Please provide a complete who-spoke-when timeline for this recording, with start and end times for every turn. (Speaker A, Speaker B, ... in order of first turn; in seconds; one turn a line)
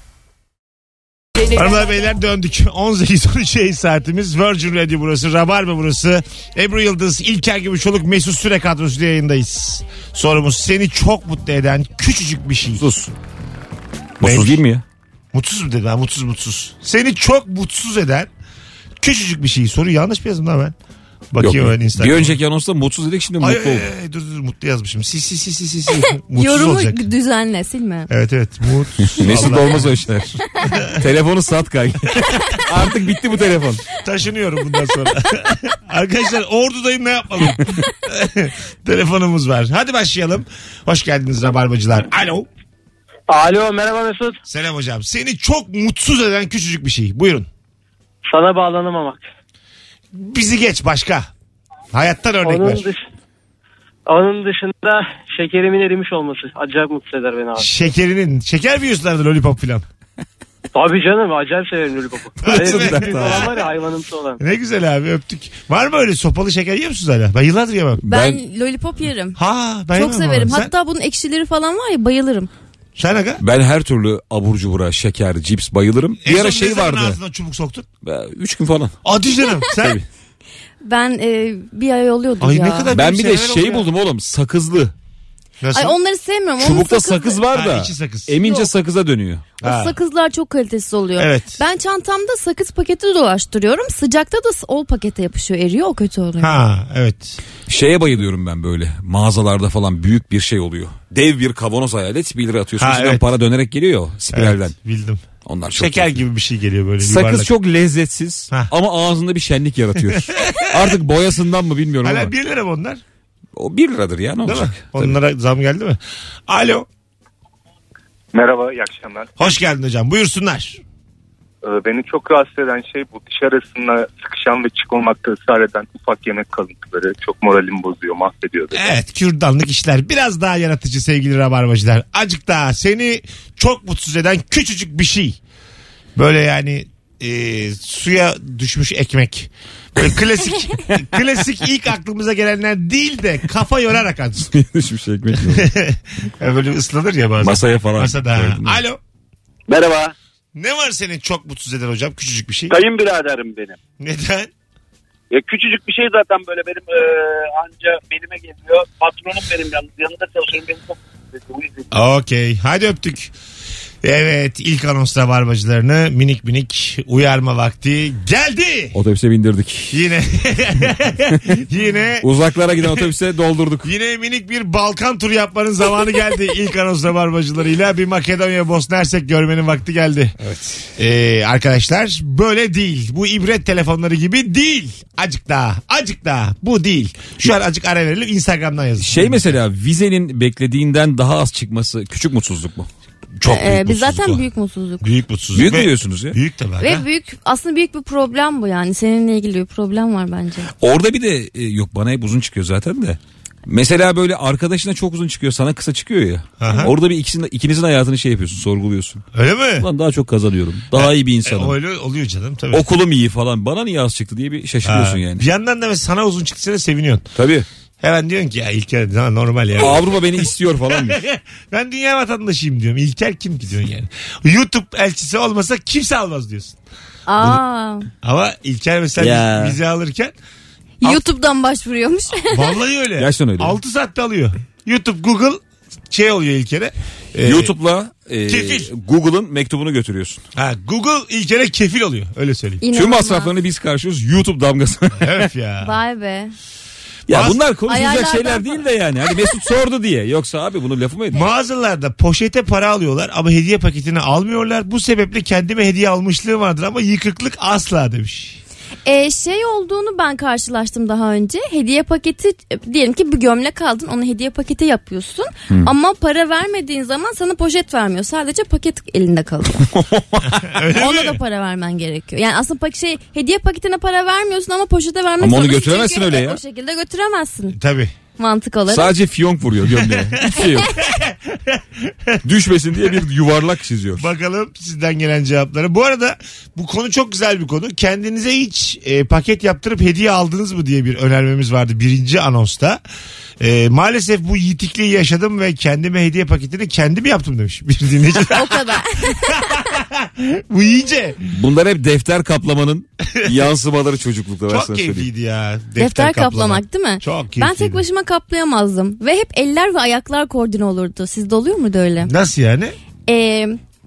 Speaker A: 1.4-12.9
Speaker B: 12.8-13.1
Speaker B: 14.2-14.8
Speaker A: 14.2-14.6
Speaker A: 15.3-18.3
Speaker A: 19.0-20.8
Speaker A: 21.3-22.4
Speaker B: 21.4-23.9
Speaker A: 23.4-27.1
Speaker C: 26.1-28.1
Speaker A: 28.1-30.0
Speaker B: 29.1-33.8
Speaker A: 30.7-31.0
Speaker A: 34.0-42.5
Speaker D: 43.3-44.4
Speaker A: 44.5-47.5
Speaker D: 48.3-49.2
Speaker A: 50.1-51.3
Speaker A: 51.9-52.9
Speaker D: 52.4-53.0
Speaker D: 54.1-57.7
Speaker A: 57.6-59.9
Speaker D: 60.7-64.4
Speaker A: 62.4-63.5
Speaker B: 62.5-63.6
Speaker A: 64.4-68.0
Speaker B: 68.0-68.4
Speaker C: 68.1-69.4
Speaker A: 69.4-70.7
Speaker C: 69.9-72.5
Speaker A: 73.0-73.4
Speaker B: 73.4-77.2
Speaker A: 76.2-77.9
Speaker B: 78.0-79.0
Speaker A: 79.0-80.0
Speaker B: 79.7-80.0
Speaker C: 80.8-82.9
Speaker A: 82.4-83.9
Speaker B: 82.9-84.9
Speaker A: 85.6-86.0
Speaker C: 85.7-87.4
Speaker B: 86.6-89.5
Speaker A: 87.5-88.3
Speaker C: 88.4-88.7
Speaker C: 89.6-96.5
Speaker A: 89.6-90.0
Speaker A: 91.2-91.6
Speaker A: 96.4-97.4
Speaker B: 97.7-104.7
Speaker A: 102.8-103.2
Speaker A: 104.3-107.5
Speaker B: 105.5-106.2
Speaker B: 107.0-112.3
Speaker A: 110.1-111.0
Speaker A: 112.0-113.0
Speaker B: 113.5-115.2
Speaker A: 114.4-116.9
Speaker E: 118.4-119.2
Speaker A: 119.4-120.8
Speaker E: 121.7-126.6
Speaker E: 127.2-127.7
Speaker A: 128.7-135.4
Speaker A: 136.2-144.5
Speaker B: 144.5-145.7
Speaker A: 145.4-149.0
Speaker B: 147.4-148.8
Speaker F: 149.7-150.1
Speaker A: 150.6-152.8
Speaker F: 152.7-153.8
Speaker A: 154.0-154.5
Speaker F: 155.3-161.9
Speaker A: 161.9-163.3
Speaker A: 164.0-169.0
Speaker B: 168.9-170.0
Speaker A: 169.9-172.3
Speaker B: 171.3-171.6
Speaker B: 172.2-173.9
Speaker A: 172.8-173.1
Speaker A: 173.8-180.4
Speaker B: 180.4-180.9
Speaker A: 181.0-189.5
Speaker B: 189.0-192.9
Speaker A: 193.4-194.5
Speaker C: 193.5-195.0
Speaker A: 195.0-197.1
Speaker B: 195.6-196.4
Speaker C: 196.8-200.7
Speaker B: 200.8-209.2
Speaker A: 206.6-206.9
Speaker A: 209.3-209.9
Speaker B: 209.8-211.8
Speaker A: 210.9-212.9
Speaker B: 212.7-215.4
Speaker A: 214.8-217.3
Speaker B: 217.4-217.7
Speaker A: 218.0-220.2
Speaker B: 219.8-221.2
Speaker A: 220.9-226.8
Speaker C: 227.3-228.1
Speaker A: 228.2-230.3
Speaker B: 229.2-229.8
Speaker C: 231.0-232.7
Speaker A: 232.5-237.7
Speaker B: 233.2-233.8
Speaker B: 237.4-240.4
Speaker A: 238.5-238.9
Speaker A: 240.6-242.8
Speaker C: 242.8-243.5
Speaker B: 242.9-245.5
Speaker A: 245.2-246.0
Speaker C: 245.8-246.5
Speaker B: 247.3-251.4
Speaker A: 247.3-247.6
Speaker C: 247.9-248.8
Speaker A: 251.3-258.6
Speaker C: 259.1-269.9
Speaker B: 269.8-270.7
Speaker A: 270.6-271.4
Speaker C: 270.9-277.8
Speaker B: 275.4-276.6
Speaker A: 277.7-278.1
Speaker C: 278.4-279.1
Speaker B: 278.9-281.0
Speaker A: 280.0-280.3
Speaker A: 281.0-282.4
Speaker B: 282.4-284.3
Speaker A: 284.2-293.0
Speaker A: 293.6-301.4
Speaker C: 298.5-299.8
Speaker B: 301.5-305.3
Speaker A: 304.7-308.0
Speaker C: 306.0-312.3
Speaker A: 312.2-312.9
Speaker C: 313.3-313.8